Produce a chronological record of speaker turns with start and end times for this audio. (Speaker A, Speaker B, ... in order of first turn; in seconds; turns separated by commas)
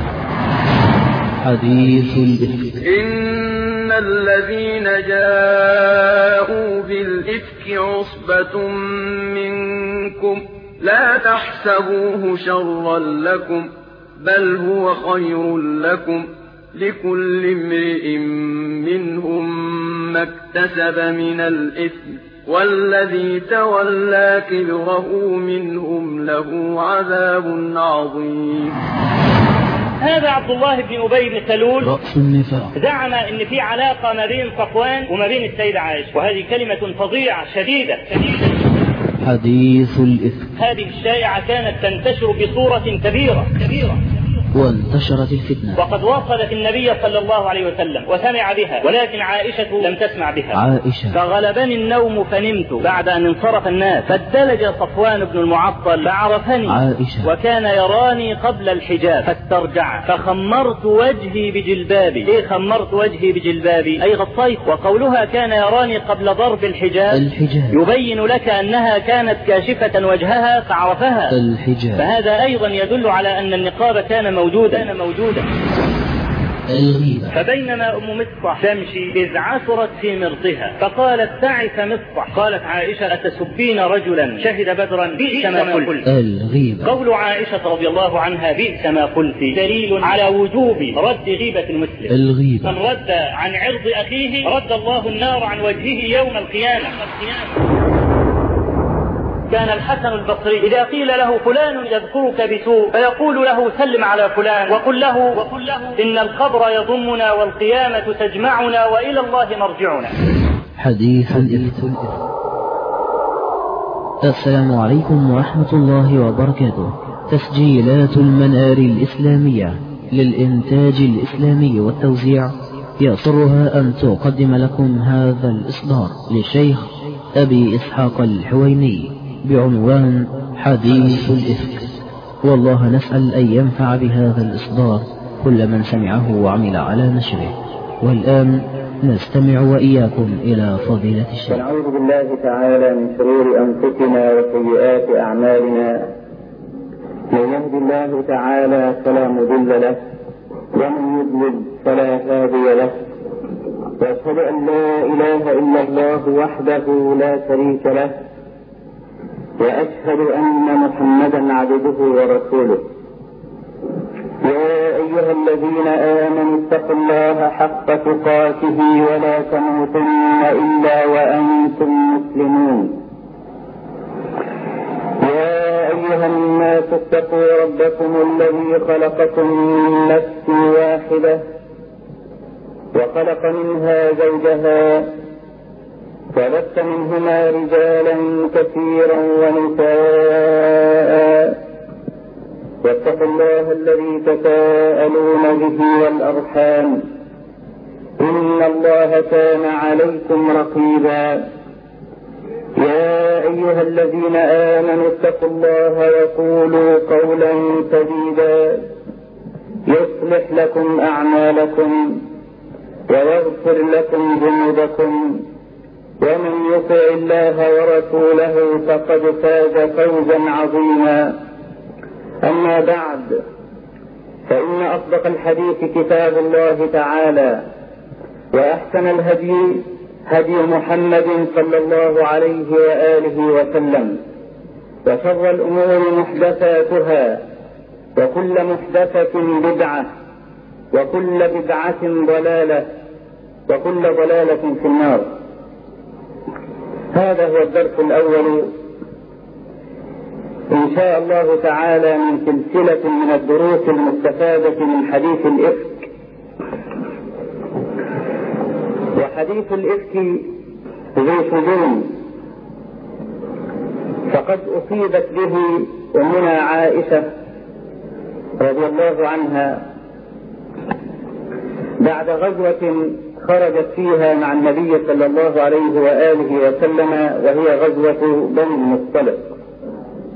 Speaker A: 1.4-2.8, Speaker B: 2.8-28.8, Speaker C: 30.0-31.9, Speaker A: 31.8-32.7, Speaker C: 32.7-38.4, Speaker A: 39.2-40.5, Speaker C: 40.6-44.0, Speaker A: 44.5-45.8, Speaker C: 45.8-50.6, Speaker A: 50.5-51.2, Speaker C: 51.1-71.3, Speaker A: 56.7-57.3, Speaker A: 67.1-67.8, Speaker A: 71.3-72.0, Speaker C: 72.0-75.5, Speaker A: 76.7-77.3, Speaker C: 77.3-86.0, Speaker A: 86.0-86.9, Speaker C: 86.8-97.5, Speaker A: 92.1-92.8, Speaker C: 99.5-110.1, Speaker A: 110.8-112.1, Speaker A: 114.2-141.6, Speaker D: 141.5-146.1, Speaker D: 147.3-150.0, Speaker D: 150.7-153.0, Speaker D: 154.0-158.1, Speaker D: 159.6-162.8, Speaker D: 164.4-173.0, Speaker D: 175.2-181.4, Speaker D: 182.9-185.2, Speaker D: 186.3-191.6, Speaker D: 192.8-197.1, Speaker D: 198.2-201.5, Speaker D: 202.8-208.9, Speaker D: 209.8-212.2, Speaker D: 213.1-215.5, Speaker D: 216.2-221.4, Speaker D: 222.4-223.4, Speaker D: 224.5-227.6, Speaker D: 228.5-234.2, Speaker D: 235.0-237.4, Speaker D: 238.2-240.1, Speaker D: 240.9-242.9, Speaker D: 243.7-245.3, Speaker D: 247.1-248.8, Speaker D: 250.7-256.1, Speaker D: 259.1-260.6, Speaker D: 261.1-262.2, Speaker D: 264.3-267.3, Speaker D: 268.6-269.8, Speaker D: 272.0-279.5